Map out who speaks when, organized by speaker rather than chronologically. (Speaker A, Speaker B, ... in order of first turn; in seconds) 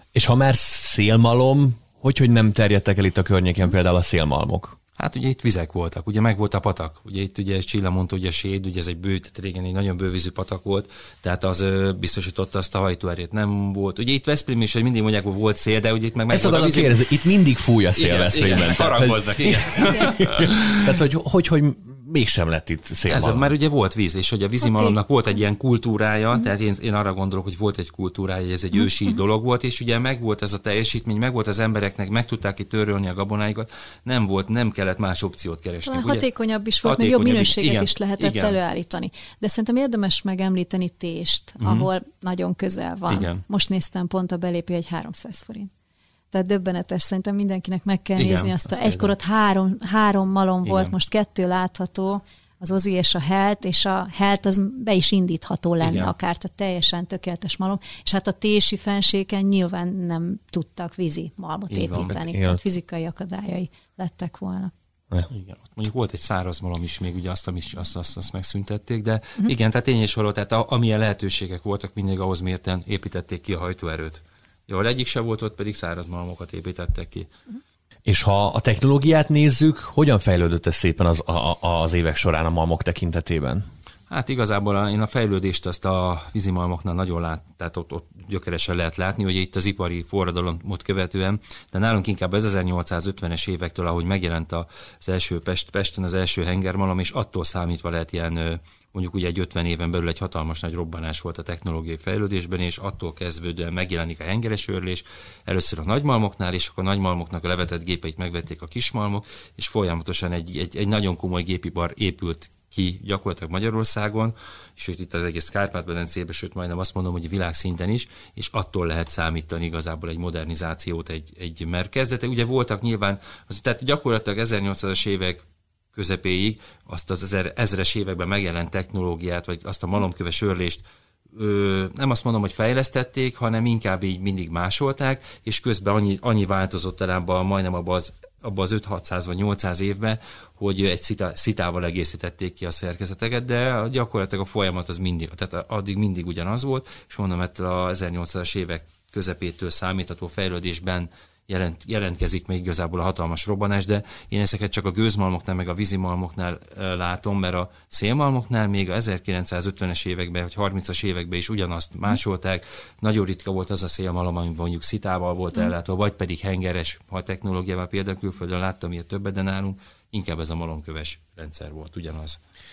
Speaker A: 0.1-4.8, 16.3-23.5, 62.3-62.6, 78.1-83.6
Speaker B: 5.0-17.0, 17.9-21.0, 23.1-36.3, 36.8-38.6, 41.6-41.9, 43.1-43.4, 48.2-49.1, 50.6-50.9, 55.8-56.1, 61.7-62.2, 65.3-77.3, 84.1-125.4, 125.9-172.4
Speaker C: 35.9-45.7, 46.3-64.7